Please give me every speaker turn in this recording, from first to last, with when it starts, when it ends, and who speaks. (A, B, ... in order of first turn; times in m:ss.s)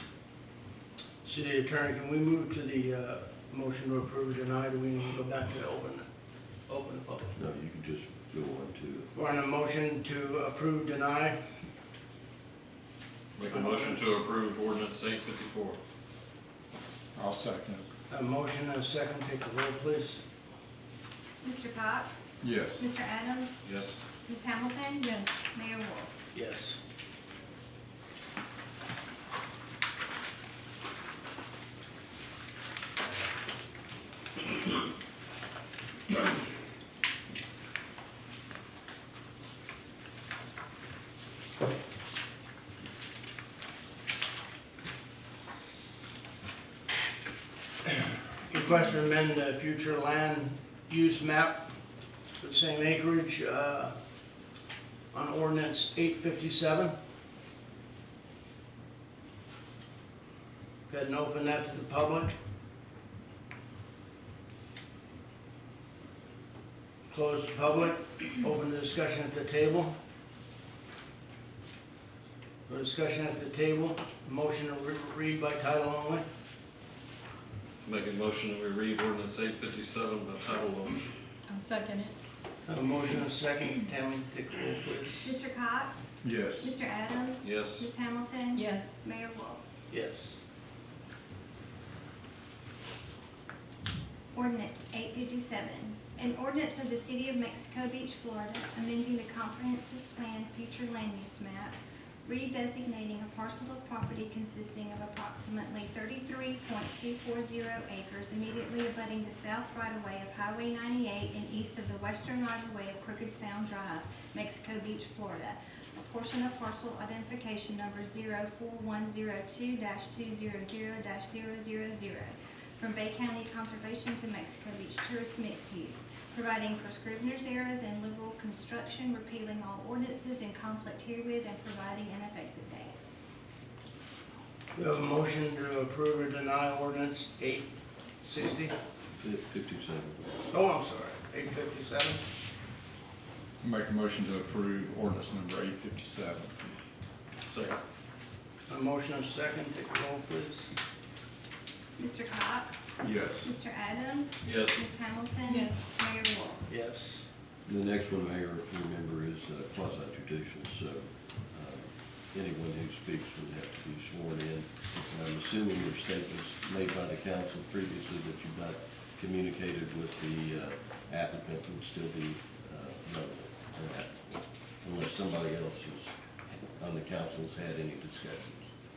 0:01.2-0:06.0 A
0:06.7-0:07.3 A
0:07.3-0:09.1 B
0:09.1-0:11.4 A
0:13.4-0:15.8 C
0:13.5-0:14.2 A
0:17.1-0:17.8 D
0:18.1-0:20.2 A
0:21.4-0:23.6 E
0:22.4-0:22.8 D
0:23.6-0:24.0 C
0:24.2-0:26.1 E
0:25.0-0:25.3 F
0:26.3-0:26.8 A
0:48.5-0:51.7 A
0:52.4-0:54.0 A
0:55.1-0:57.0 A
1:00.9-1:02.4 A
1:07.1-1:09.9 A
1:12.7-1:16.2 A
1:17.8-1:21.0 C
1:21.5-1:22.2 F
1:22.6-1:25.3 A
1:25.2-1:29.6 E
1:26.2-1:26.7 D
1:27.4-1:27.9 C
1:28.5-1:29.0 F
1:29.9-1:30.3 A
1:34.3-2:12.9 E
2:14.7-2:18.7 A
2:19.2-2:20.2 B
2:20.5-2:22.2 A
2:23.6-2:26.5 D
2:27.5-2:27.8 C
2:28.7-2:30.7 A
2:32.0-2:36.6 E
2:33.0-2:33.5 D
2:34.4-2:34.8 C
2:35.4-2:35.9 F
2:36.7-2:37.2 A
2:37.6-2:58.7 B